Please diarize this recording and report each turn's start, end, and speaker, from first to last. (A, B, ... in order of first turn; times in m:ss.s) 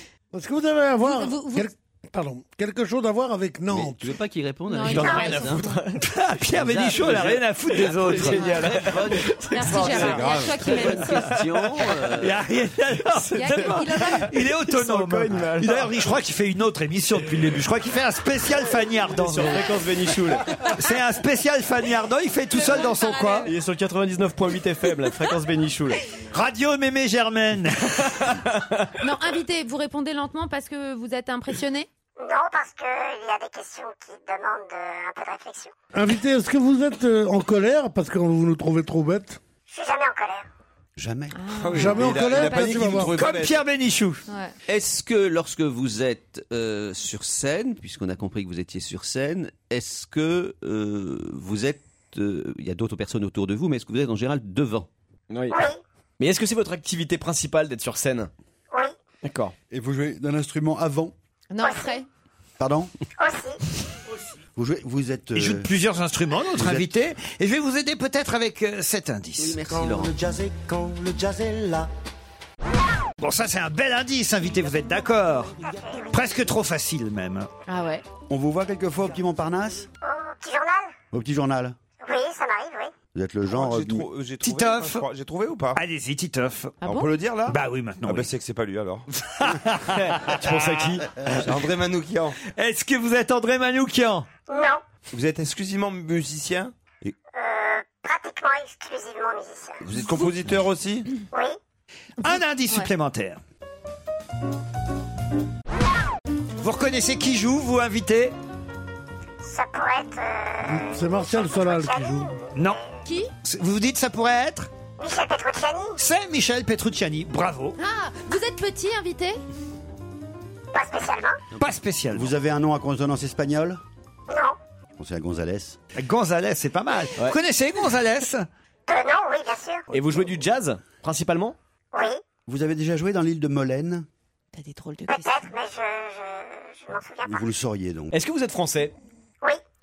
0:00.3-0:04.2 A
0:01.0-0:01.7 B
0:03.7-0:05.8 C
0:04.7-0:05.8 B
0:04.9-0:06.0 D
0:06.0-0:08.5 E
0:06.6-0:10.4 D
0:06.7-0:07.4 C
0:08.1-0:12.4 C
0:08.3-0:08.8 B
0:09.4-0:11.3 B
0:10.8-0:19.8 E
0:13.2-0:16.1 D
0:13.3-0:14.8 B
0:19.1-0:20.4 D
0:20.6-0:23.5 E
0:22.5-0:23.5 B
0:23.4-0:26.0 D
0:26.3-0:28.4 E
0:28.5-0:28.8 D
0:29.0-0:31.9 B
0:32.2-0:35.7 F
0:35.9-0:39.4 A
0:39.7-0:40.4 F
0:41.0-0:41.4 G
0:41.3-0:42.9 B
0:41.5-0:43.6 H
0:41.7-0:43.2 A
0:43.1-0:44.2 E
0:44.3-0:44.5 B
0:44.7-0:54.9 C
0:55.3-0:55.6 D
0:55.5-0:55.8 F
0:56.2-0:58.3 D
0:59.2-0:59.5 D
0:59.7-1:01.1 G
1:01.5-1:02.1 B
1:01.6-1:02.0 F
1:02.6-1:02.9 G
1:03.2-1:03.6 F
1:04.6-1:05.7 G
1:05.3-1:09.6 E
1:06.6-1:06.9 G
1:09.4-1:10.2 C
1:10.3-1:11.8 G
1:13.2-1:15.5 E
1:15.8-1:16.1 F
1:16.1-1:17.5 E
1:17.7-1:18.0 B
1:18.3-1:19.9 G
1:20.0-1:20.9 F
1:21.1-1:21.8 G
1:22.0-1:22.9 F
1:23.1-1:24.1 G
1:23.5-1:25.8 H
1:24.4-1:25.0 E
1:25.7-1:26.8 E
1:26.8-1:27.1 B
1:26.8-1:29.1 H
1:27.5-1:28.3 E
1:29.2-1:31.0 E
1:29.9-1:31.0 D
1:31.2-1:32.4 H
1:32.5-1:34.3 E
1:34.5-1:34.8 F
1:35.1-1:37.1 H
1:37.3-1:39.8 F
1:39.8-1:41.1 H
1:40.0-1:40.3 B
1:41.3-1:41.6 F
1:42.2-1:43.4 E
1:42.2-1:42.9 B
1:46.6-1:48.3 E
1:49.4-1:52.8 F
1:50.6-1:52.3 A
1:52.5-1:52.8 E
1:53.0-1:53.3 B
1:53.4-1:54.7 E
1:55.0-1:56.0 F
1:56.0-1:57.8 E
1:57.8-1:59.4 B
2:00.7-2:01.4 F
2:01.6-2:02.3 E
2:02.1-2:03.8 G
2:04.3-2:04.5 F
2:05.0-2:05.8 G
2:06.0-2:08.5 E
2:08.9-2:09.8 F
2:09.9-2:11.6 D
2:11.9-2:12.2 F
2:12.4-2:14.1 G
2:14.5-2:15.5 B
2:15.1-2:17.5 F
2:17.2-2:18.1 G
2:18.1-2:18.9 D